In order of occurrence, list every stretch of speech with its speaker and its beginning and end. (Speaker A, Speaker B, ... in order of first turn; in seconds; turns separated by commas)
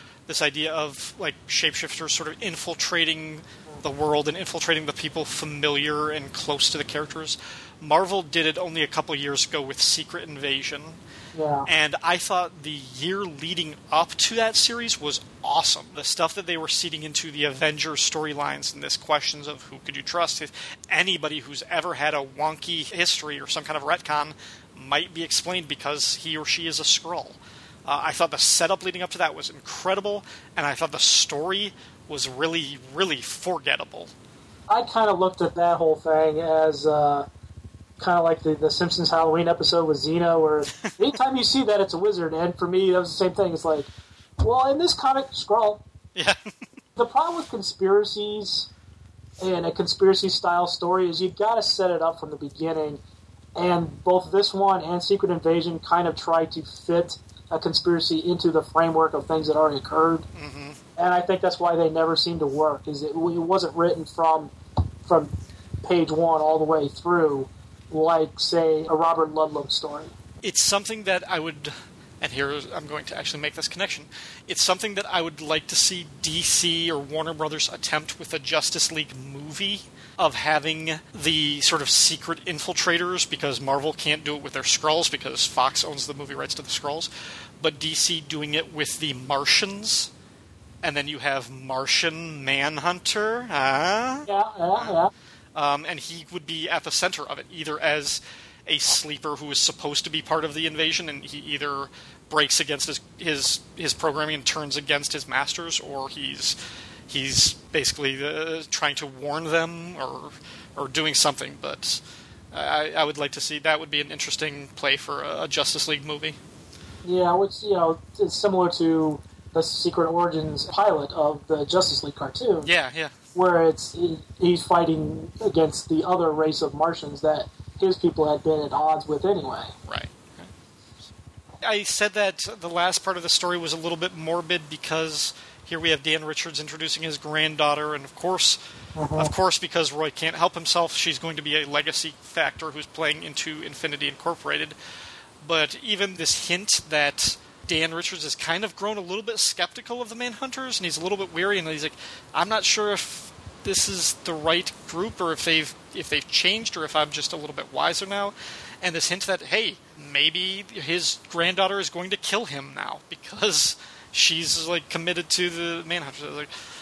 Speaker A: 0.3-11.0, Speaker B: 11.3-11.7, Speaker A: 11.7-34.1, Speaker B: 34.7-37.3, Speaker B: 38.0-43.9, Speaker B: 44.4-45.8, Speaker B: 47.0-48.7, Speaker B: 49.4-53.0, Speaker B: 53.5-60.3, Speaker A: 60.3-60.8, Speaker B: 61.0-64.5, Speaker B: 65.0-70.1, Speaker A: 70.4-90.1, Speaker A: 90.8-95.0, Speaker B: 94.3-95.1, Speaker A: 95.5-106.6, Speaker A: 107.1-116.4, Speaker B: 117.0-122.7, Speaker A: 122.6-123.1, Speaker B: 123.3-129.7, Speaker A: 129.9-130.5, Speaker A: 131.6-138.6, Speaker B: 139.0-139.3, Speaker A: 139.2-144.8, Speaker A: 145.4-166.5